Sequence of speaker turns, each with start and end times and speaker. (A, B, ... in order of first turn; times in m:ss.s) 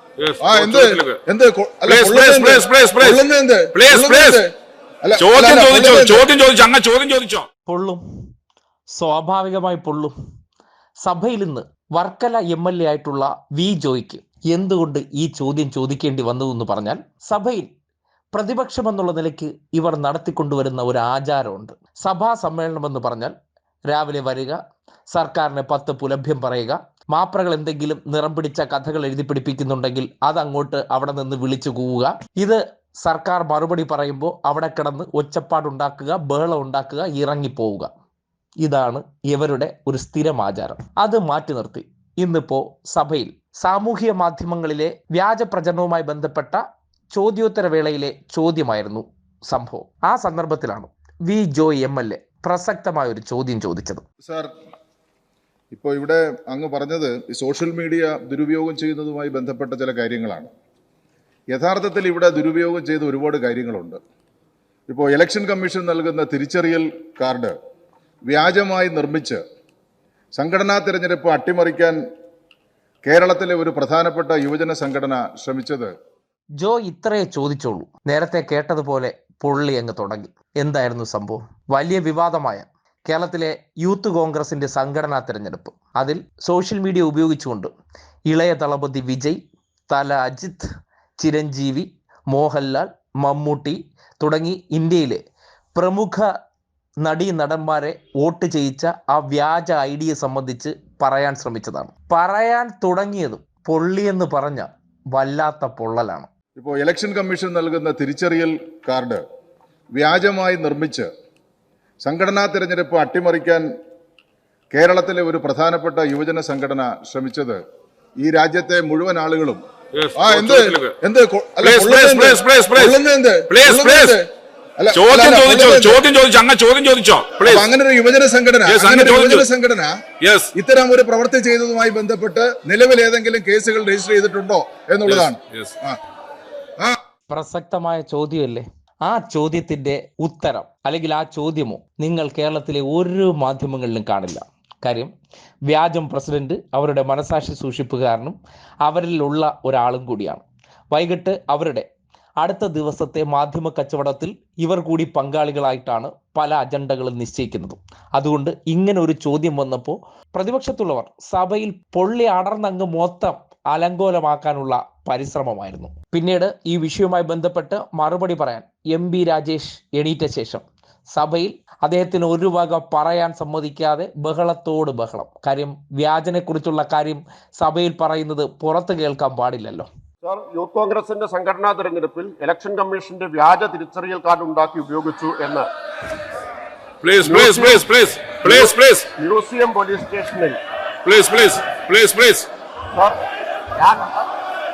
0:00.2-0:01.2 A
0:00.4-0:04.5 B
0:01.9-0:03.2 A
0:03.7-0:04.4 A
0:05.0-0:06.3 B
0:05.2-0:07.5 A
0:07.7-0:08.0 C
0:09.0-0:10.1 C
0:11.0-0:17.7 C
0:18.3-0:23.3 C
0:23.9-0:24.6 C
0:25.1-0:37.9 C
0:38.6-0:46.6 C
0:47.2-0:54.0 C
0:55.7-1:00.5 B
1:01.5-1:04.0 B
1:04.9-1:07.6 B
1:08.3-1:09.4 B
1:10.4-1:12.0 B
1:13.0-1:15.9 B
1:16.6-1:27.7 C
1:28.3-1:29.4 C
1:29.9-1:30.7 C
1:31.2-1:35.2 C
1:35.8-1:36.3 C
1:37.0-1:46.3 C
1:46.6-1:49.2 B
1:50.0-1:51.1 B
1:52.0-1:53.7 B
1:54.7-1:57.6 B
1:58.2-1:59.6 B
2:00.0-2:01.0 A
2:00.2-2:04.2 B
2:01.6-2:03.0 A
2:03.5-2:04.2 A
2:04.8-2:06.0 B
2:04.9-2:07.7 A
2:07.4-2:09.9 B
2:08.7-2:09.5 A
2:10.2-2:10.5 A
2:10.6-2:16.0 B
2:15.1-2:15.7 A
2:17.3-2:25.1 C
2:25.7-2:31.9 C
2:32.4-2:50.6 C
2:51.2-2:59.9 C
3:00.2-3:05.7 D
3:07.0-3:09.1 A
3:07.2-3:07.9 D
3:08.4-3:10.6 D
3:11.0-3:12.5 A
3:13.8-3:14.1 D